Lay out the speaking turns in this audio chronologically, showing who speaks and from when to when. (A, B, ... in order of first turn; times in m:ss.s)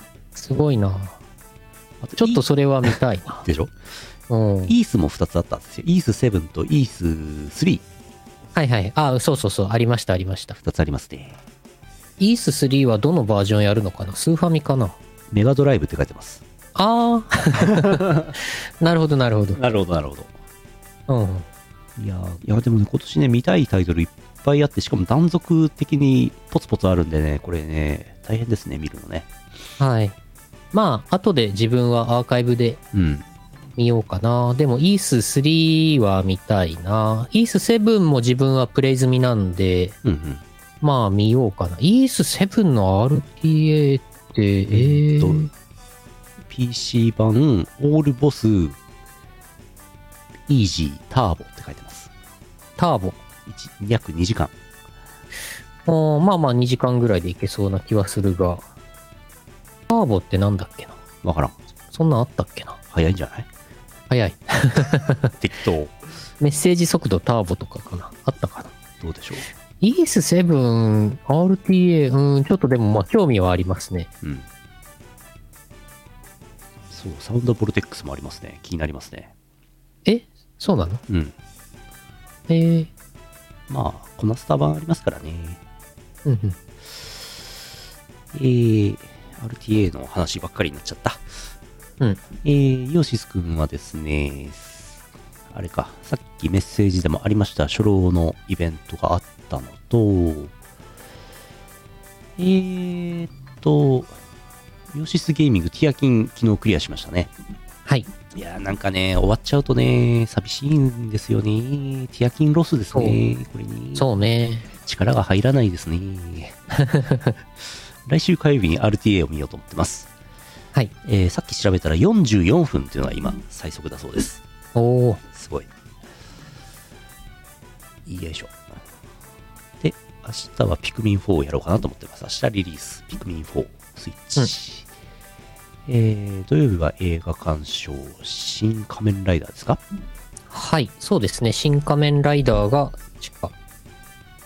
0:00.3-0:01.2 A
0:02.0-0:03.7 B
0:02.2-0:03.4 A
0:04.3-0:04.8 A
0:04.6-0:07.8 B
0:08.5-0:10.6 A
0:10.6-0:11.4 B
0:12.2-0:15.0 A
0:15.3-0:16.4 B
0:16.7-0:18.0 A
0:17.5-0:18.4 B
0:18.8-0:19.6 A
0:19.5-0:20.3 B
0:21.1-0:21.4 A
0:22.0-0:29.3 B
0:29.8-0:30.2 A
0:30.7-0:32.8 A
0:32.9-0:33.2 B
0:33.8-0:40.0 A
0:40.0-0:40.4 B
0:40.8-0:45.5 A
0:44.7-0:45.5 B
0:46.5-0:48.8 B
0:50.5-0:52.1 B
0:52.8-0:53.2 A
0:53.4-0:54.5 B
0:55.8-0:58.6 A
0:59.9-1:00.9 A
1:01.2-1:01.6 B
1:01.9-1:02.8 A
1:02.9-1:03.5 B
1:04.1-1:05.3 A
1:05.3-1:06.0 B
1:06.4-1:08.7 A
1:09.0-1:09.5 B
1:09.8-1:14.1 A
1:16.9-1:19.3 B
1:20.0-1:21.0 A
1:21.1-1:21.3 B
1:22.5-1:22.9 A
1:23.7-1:25.6 B
1:26.2-1:26.6 A
1:28.3-1:31.2 B
1:32.4-1:35.0 B
1:35.5-1:40.5 B
1:42.4-1:44.2 B
1:44.9-1:47.3 B
1:48.3-1:54.1 B
1:53.9-1:54.6 A
1:54.8-1:56.6 B
1:56.8-1:57.3 A
1:58.0-2:00.1 B
2:01.0-2:04.4 B
2:04.7-2:05.2 A
2:05.3-2:05.7 B
2:08.1-2:08.6 B
2:09.8-2:14.9 B
2:15.9-2:19.8 B
2:20.5-2:23.5 A